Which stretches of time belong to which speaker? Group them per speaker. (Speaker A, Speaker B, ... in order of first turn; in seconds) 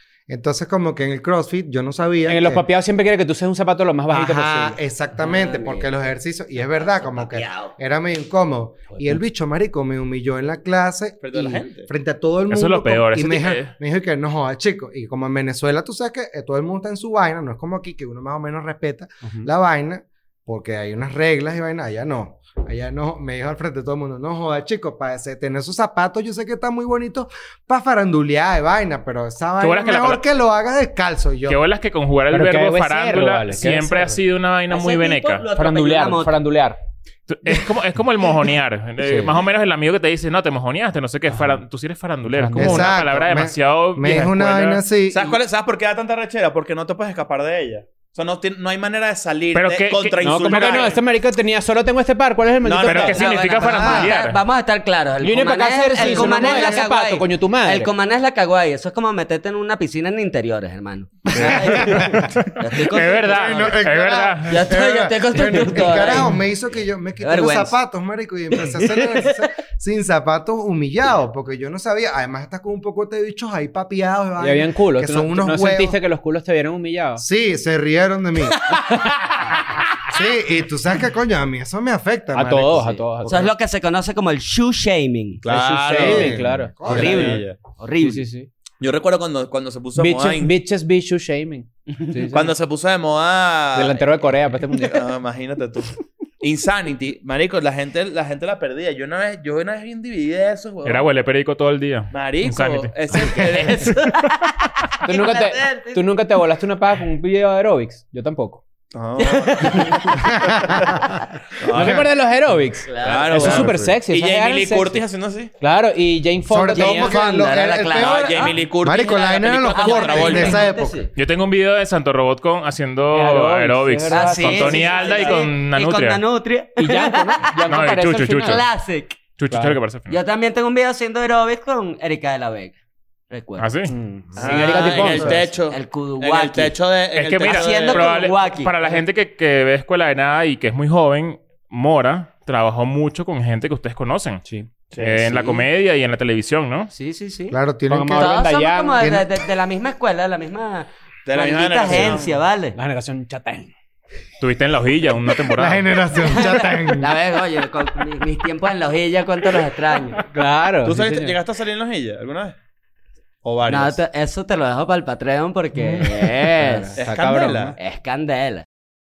Speaker A: 0.3-2.6, 4.1-31.6, 42.5-45.4, 56.0-56.9, 61.3-62.4, 63.1-76.0, 77.2-78.6, 80.1-83.5, 85.9-87.3, 110.3-111.0, 113.3-114.0, 116.5-121.0, 134.3-135.4, 147.5-148.3, 155.5-157.1, 166.6-167.7
Speaker B: 2.3-4.8, 19.2-19.5, 32.3-34.2, 35.5-36.8, 39.0-39.3, 42.3-43.0, 50.2-53.2, 55.2-57.9, 74.4-77.2, 78.8-79.5, 82.3-83.4, 85.5-87.4, 88.0-88.5, 90.0-92.5, 93.7-95.1, 105.0-108.6, 111.7-115.0, 115.6-117.2, 123.1-125.4, 126.8-128.6, 129.5-129.8, 133.9-135.4, 147.9-149.2, 152.7-153.7, 160.3-161.4, 166.7-167.7
Speaker C: 5.2-5.9, 6.7-7.7, 34.7-36.4, 53.0-63.7, 64.5-66.3, 67.2-67.8, 68.5-69.4, 83.3-85.4, 86.8-88.2, 103.4-106.1, 109.2-110.3, 112.8-113.6, 116.7-121.1, 124.1-127.6, 128.4-129.2, 130.1-132.8, 133.3-133.7, 134.7-136.8, 137.4-139.0, 146.9-147.5, 148.1-152.8, 156.2-160.2, 163.7-167.0, 167.8-168.6
Speaker D: 11.2-11.9, 45.1-51.0, 52.6-54.1, 85.4-86.3, 86.9-87.6, 88.8-90.5, 92.3-94.0, 94.7-101.1, 102.1-104.0, 108.9-112.1, 113.0-115.5, 117.9-120.6, 134.3-138.2, 144.9-145.6, 151.2-152.4, 160.8-162.5, 163.4-164.0, 166.9-167.8
Speaker E: 12.5-13.7, 29.6-30.2, 31.5-35.4, 37.3-44.8, 49.5-51.0, 52.9-54.4, 62.4-64.6, 100.8-103.3, 121.1-126.2, 127.7-128.6, 129.4-130.2, 133.6-133.9, 137.1-144.4, 145.0-146.9, 154.4-155.9